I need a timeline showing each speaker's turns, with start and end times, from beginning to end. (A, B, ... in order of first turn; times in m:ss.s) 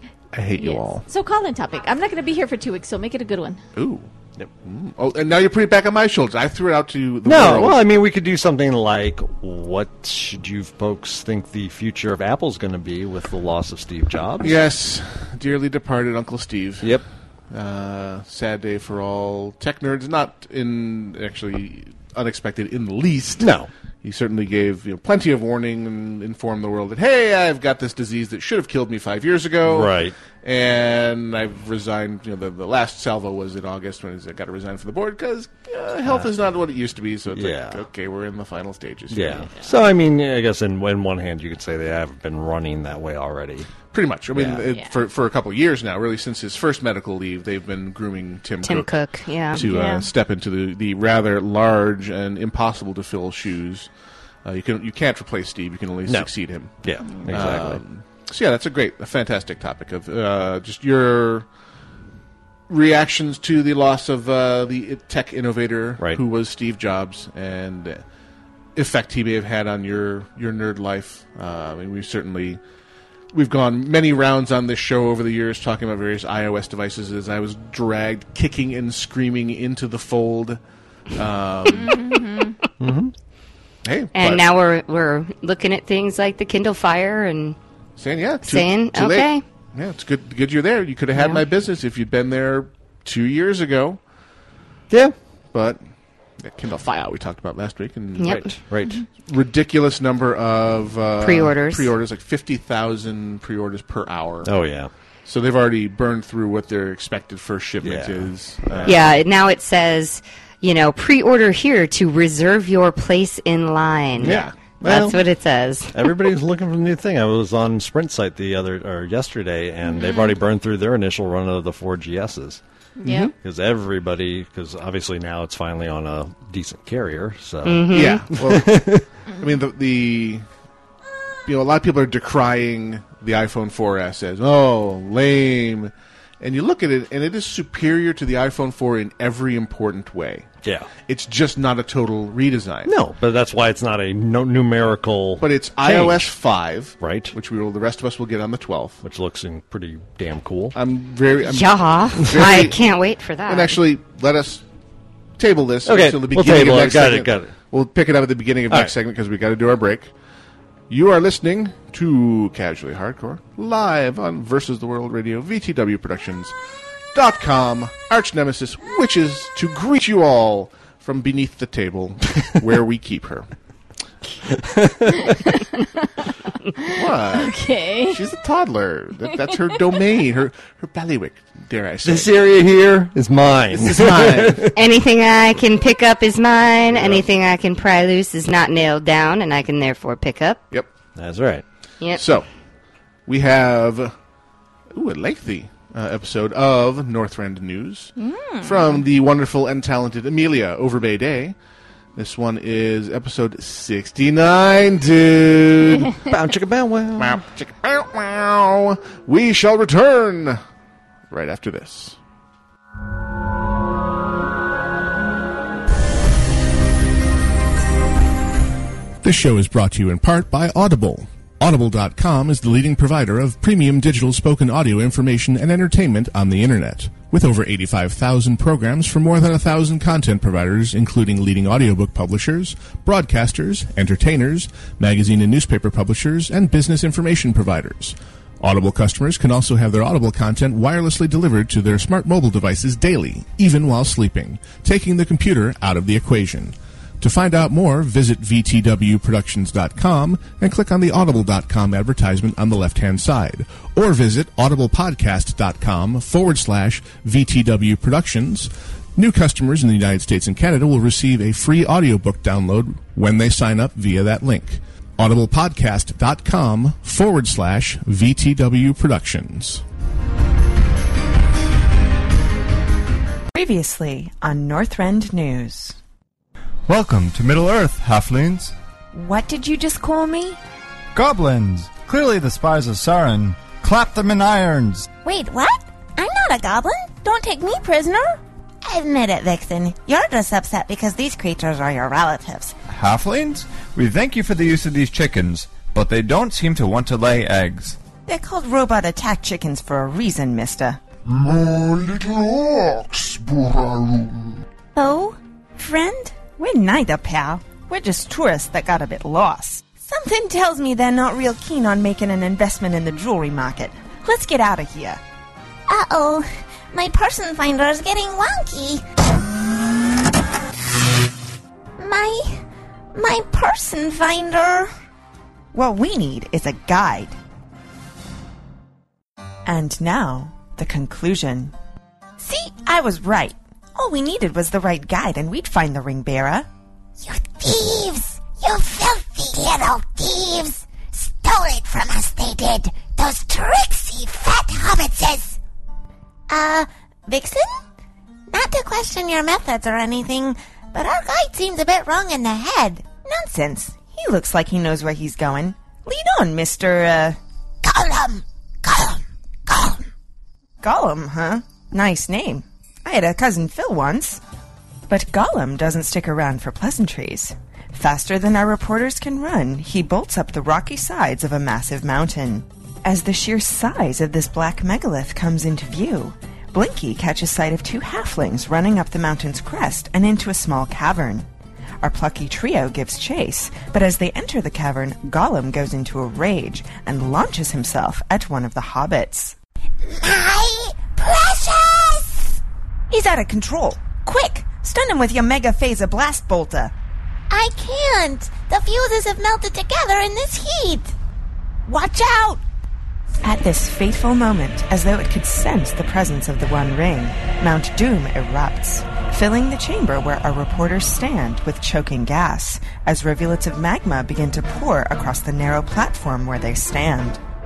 0:00.3-0:01.0 A
0:00.6-0:03.6 B
0:03.8-0:04.1 A
0:04.6-0:07.8 A
0:07.2-0:14.6 C
0:14.4-0:39.5 A
0:23.4-0:23.7 C
0:29.6-0:30.2 C
0:37.3-0:37.8 C
0:39.1-0:43.7 C
0:43.9-0:48.9 A
0:44.3-0:44.6 C
0:48.6-0:49.7 D
0:49.5-0:53.9 A
0:49.6-0:50.1 B
0:54.4-1:01.5 A
0:56.8-0:57.8 C
1:02.7-1:08.0 A
1:08.8-1:12.6 A
1:13.3-1:20.6 A
1:21.1-1:22.0 A
1:21.7-1:22.6 B
1:22.8-1:23.1 C
1:23.8-1:24.4 A
1:24.2-1:27.6 D
1:28.0-1:34.0 A
1:28.4-1:29.4 D
1:31.2-1:31.4 D
1:35.5-1:35.8 A
1:36.4-1:38.6 A
1:38.2-1:38.5 D
1:38.3-1:39.0 C
1:39.2-1:44.5 A
1:41.2-1:41.9 D
1:44.4-1:44.9 C
1:45.2-1:49.0 A
1:47.8-1:49.0 C
1:48.8-1:56.1 D
1:54.2-1:54.6 A
1:54.2-1:55.2 C
1:55.9-2:02.6 C
1:59.8-2:00.4 B
2:03.0-2:03.3 B
2:03.4-2:09.0 C
2:07.6-2:08.2 D
2:07.9-2:10.4 A
2:11.5-2:20.5 A
2:20.6-2:20.9 C
2:21.0-2:23.0 A
2:22.9-2:26.3 C
2:25.4-2:29.0 A
2:27.0-2:27.3 C
2:29.0-2:30.8 C
2:30.7-2:32.8 A
2:31.4-2:33.8 D
2:33.5-2:34.6 A
2:35.4-2:40.1 A
2:35.9-2:37.5 C
2:40.9-2:46.6 A
2:47.1-2:53.5 A
2:54.6-2:55.4 C
2:55.5-2:56.0 B
2:56.8-2:58.2 B
2:56.9-3:02.3 A
3:02.0-3:04.7 C
3:03.7-3:04.7 A
3:04.7-3:10.6 D
3:06.9-3:07.2 A
3:11.2-3:11.6 C
3:12.2-3:12.5 A
3:13.3-3:14.1 A
3:14.9-3:21.6 A
3:18.2-3:19.0 B
3:22.2-3:26.1 A
3:26.3-3:27.4 C
3:27.2-3:30.6 A
3:31.3-3:32.2 A
3:39.2-4:29.8 A
4:33.5-4:36.0 E
4:36.8-4:38.8 F
4:39.1-4:40.6 E
4:41.1-4:45.1 F
4:45.2-4:48.2 G
4:47.4-4:48.2 E
4:48.8-4:52.8 G
4:52.9-4:58.0 F
4:58.3-5:01.0 E
4:58.3-4:58.7 G
5:01.3-5:04.6 H
5:05.0-5:05.4 G
5:05.8-5:15.2 E
5:15.9-5:19.0 G
5:22.0-5:22.6 G
5:23.2-5:24.9 G
5:25.7-5:27.4 E
5:29.7-5:31.7 E
5:32.4-5:36.7 E
5:37.2-5:45.6 G
5:46.5-5:47.8 G
5:48.5-5:53.3 G
5:53.3-5:57.4 E
5:57.8-6:00.1 G
6:00.8-6:04.4 E
6:05.1-6:21.5 E
6:22.0-6:29.6 E
6:30.1-6:32.6 G
6:33.1-6:36.9 E
6:37.5-6:41.2 G
6:41.9-6:42.6 G
6:43.4-6:57.4 E